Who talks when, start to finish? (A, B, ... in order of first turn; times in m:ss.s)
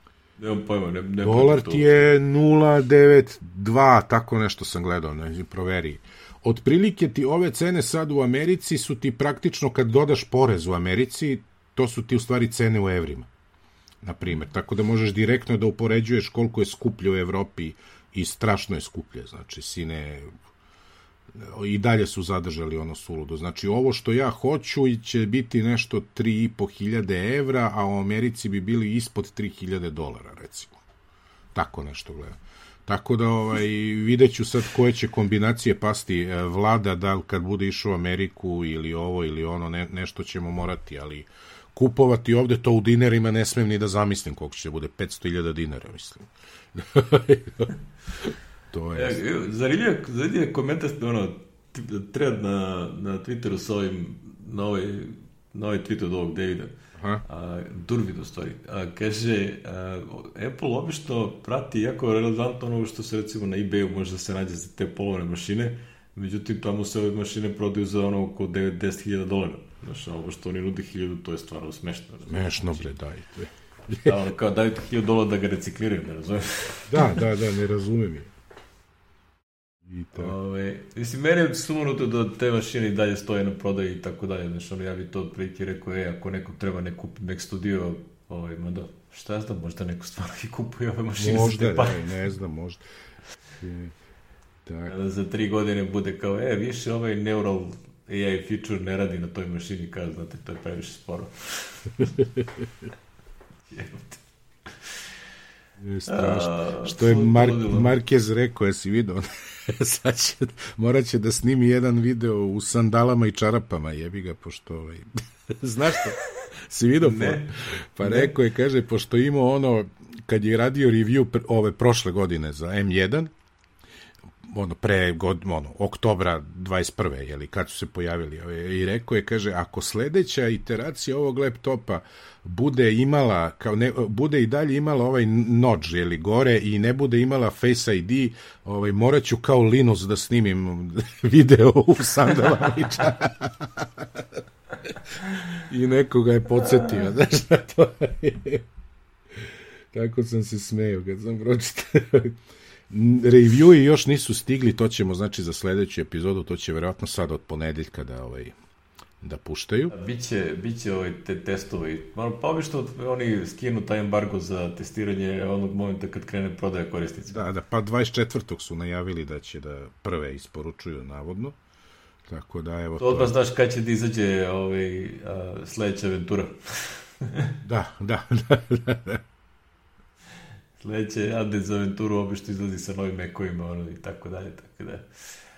0:00.4-0:02.0 A
0:01.2-0:13.3 B
0:14.0-0:20.3 B
0:21.3-0:30.8 B
0:31.5-0:49.2 B
0:48.9-1:12.8 A
0:57.0-0:57.2 B
1:12.3-1:14.2 B
1:14.0-1:17.2 A
1:16.9-1:18.3 B
1:19.8-1:20.3 B
1:20.1-1:32.0 A
1:31.2-1:32.8 B
1:33.6-1:33.9 B
1:34.6-1:34.9 B
1:34.9-1:42.1 A
1:42.2-1:42.7 B
1:43.7-1:44.2 A
1:45.8-2:03.3 B
1:46.1-1:47.9 A
1:57.0-1:58.3 A
2:04.4-2:24.4 B
2:25.5-2:28.6 B
2:29.4-2:32.4 B
2:32.9-2:38.5 B
2:39.2-2:39.9 B
2:39.9-2:47.4 A
2:47.3-2:51.6 B
2:52.3-2:53.3 B
2:53.0-2:57.6 A
2:57.6-2:59.2 B
3:00.8-3:05.1 A